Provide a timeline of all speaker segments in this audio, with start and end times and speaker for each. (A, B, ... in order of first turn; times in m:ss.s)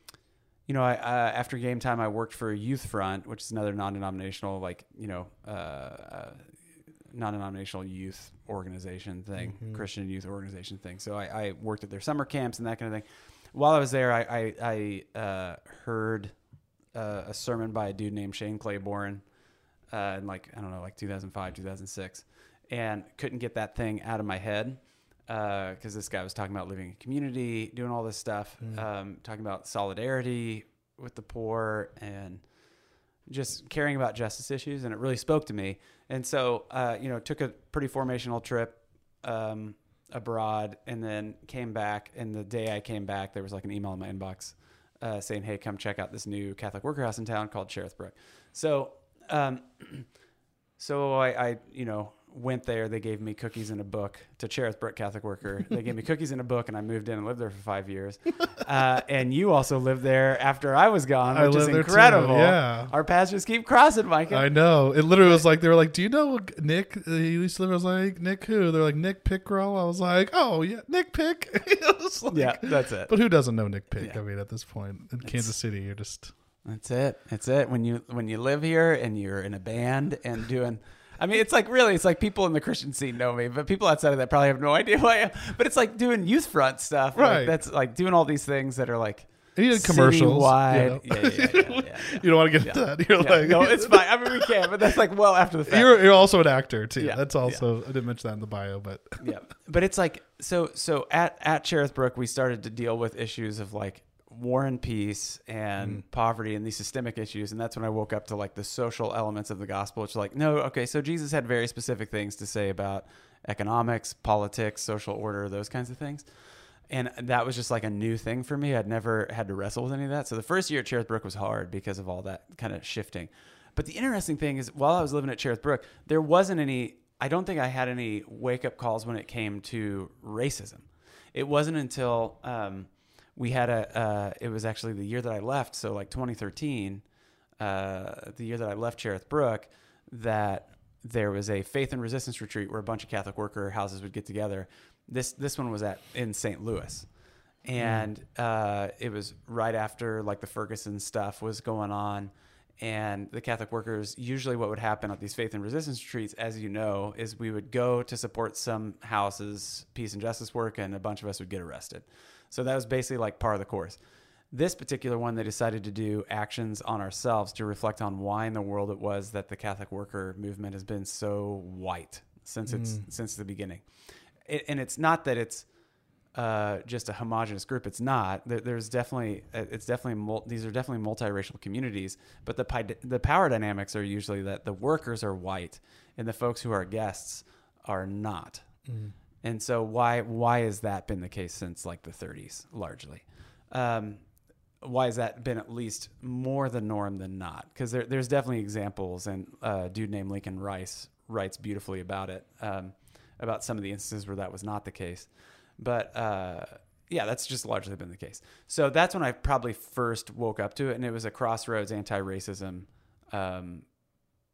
0:00.7-0:06.4 A
0:07.1-0:16.3 A
0:09.4-0:09.8 B
0:16.9-0:19.2 A
0:19.9-0:32.4 A
0:33.3-0:50.1 A
0:50.8-1:04.5 A
1:01.3-1:02.9 B
1:04.3-1:16.3 B
1:12.3-1:13.1 A
1:16.6-1:36.0 A
1:27.2-1:27.6 B
1:29.6-1:34.7 B
1:35.7-1:39.2 B
1:37.0-1:37.6 A
1:39.2-1:56.3 A
1:56.9-2:17.0 A
2:17.6-2:27.1 A
2:27.6-2:44.0 A
2:27.8-2:28.1 B
2:44.5-2:53.8 A
2:52.7-2:53.0 B
2:54.4-2:55.7 A
2:56.4-3:08.6 A
3:08.9-3:09.1 B
3:09.4-3:14.2 A
3:14.8-3:33.9 A